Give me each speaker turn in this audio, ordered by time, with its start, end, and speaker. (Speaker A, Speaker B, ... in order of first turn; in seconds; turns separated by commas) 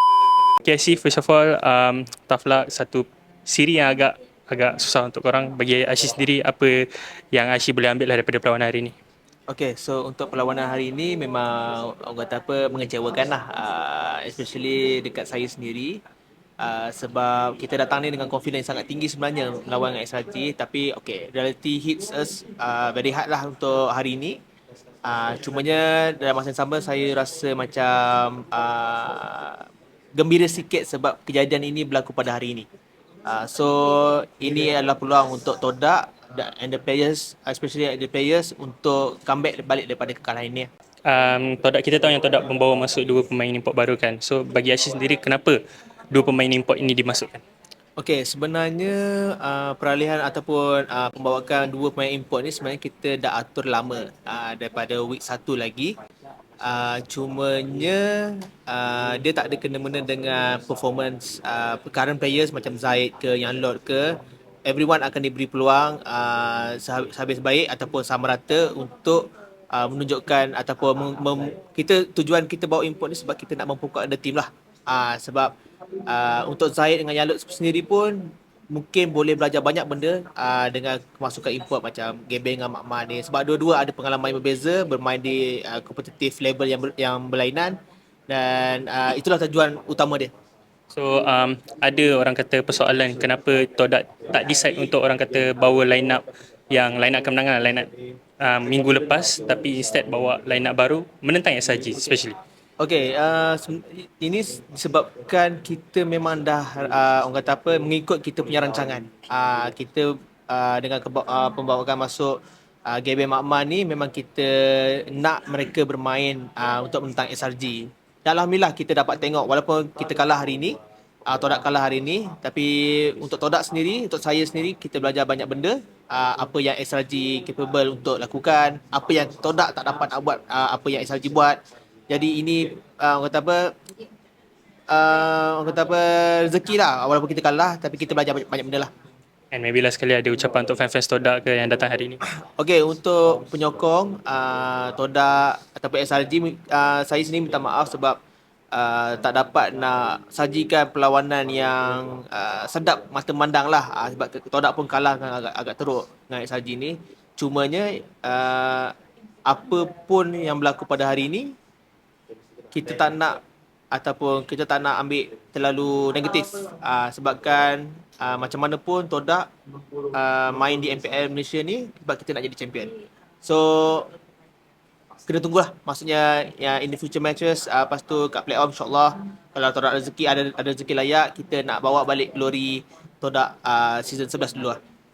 Speaker A: 0.6-8.9, Speaker B: 9.5-16.0, Speaker B: 16.6-24.4, Speaker B: 25.0-32.7, Speaker B: 33.2-40.7, Speaker A: 41.0-45.6, Speaker A: 46.1-47.4, Speaker B: 48.0-55.9, Speaker B: 56.6-75.5, Speaker B: 76.1-87.8, Speaker B: 88.3-90.3, Speaker A: 90.9-102.4, Speaker B: 102.8-133.7, Speaker B: 134.9-138.9, Speaker A: 139.5-142.2, Speaker B: 142.4-148.2, Speaker B: 148.7-158.9, Speaker B: 159.5-161.5, Speaker B: 162.7-163.4, Speaker B: 163.9-169.5, Speaker B: 170.1-174.1, Speaker B: 175.2-184.8